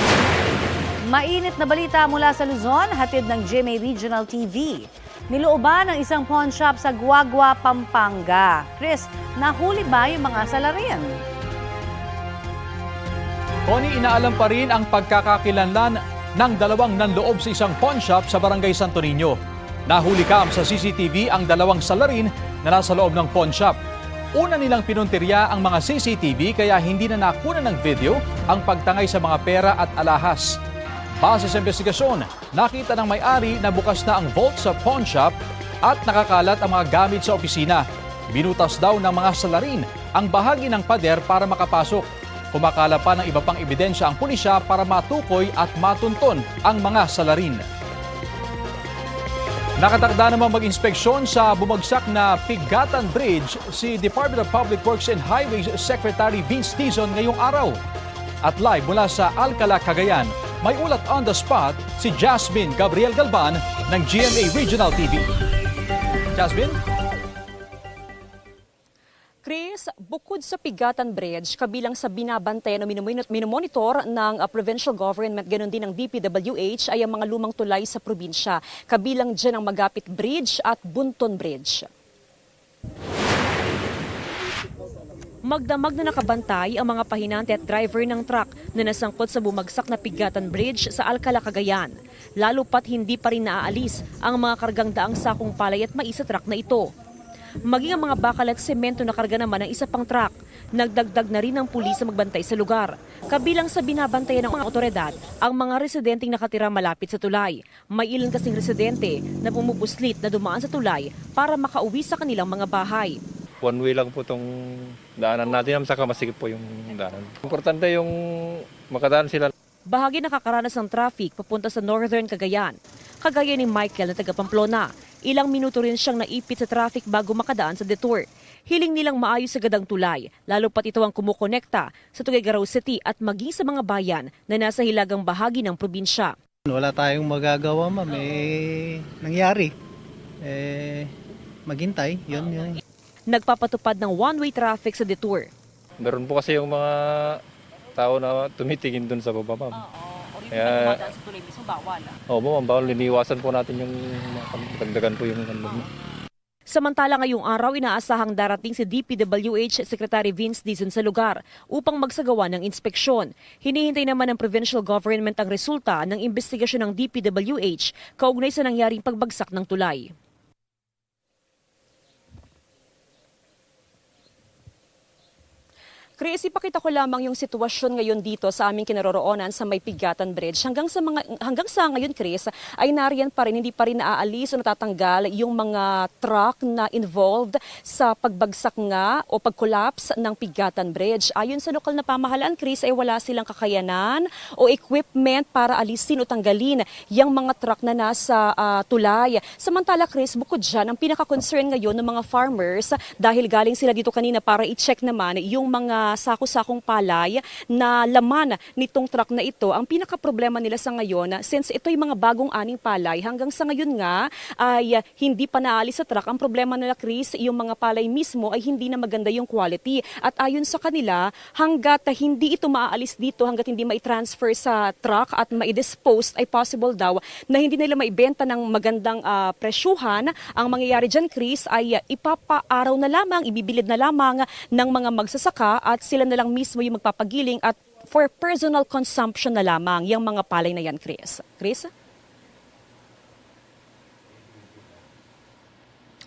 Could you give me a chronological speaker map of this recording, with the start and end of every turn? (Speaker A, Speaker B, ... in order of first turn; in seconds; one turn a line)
Speaker A: 1.1-11.1
Speaker B: 13.7-19.4
Speaker B: 19.9-23.8
Speaker B: 24.3-30.6
Speaker B: 31.2-35.3
Speaker B: 35.8-47.7
Speaker B: 49.8-57.8
Speaker B: 58.4-65.3
Speaker B: 66.3-66.8
Speaker C: 69.4-81.9
Speaker C: 85.5-96.9
Speaker C: 97.7-113.2
Speaker D: 113.6-114.4
Speaker D: 115.2-118.1
Speaker D: 118.9-119.5
Speaker C: 119.9-136.3
Speaker E: 136.7-139.7
Speaker E: 140.4-141.1
Speaker E: 141.7-142.8
Speaker C: 143.3-145.5
Speaker D: 146.0-147.3
Speaker D: 148.0-149.7
Speaker C: 150.0-152.1
Speaker D: 152.3-155.7
Speaker C: 156.7-170.1
Speaker C: 176.2-241.9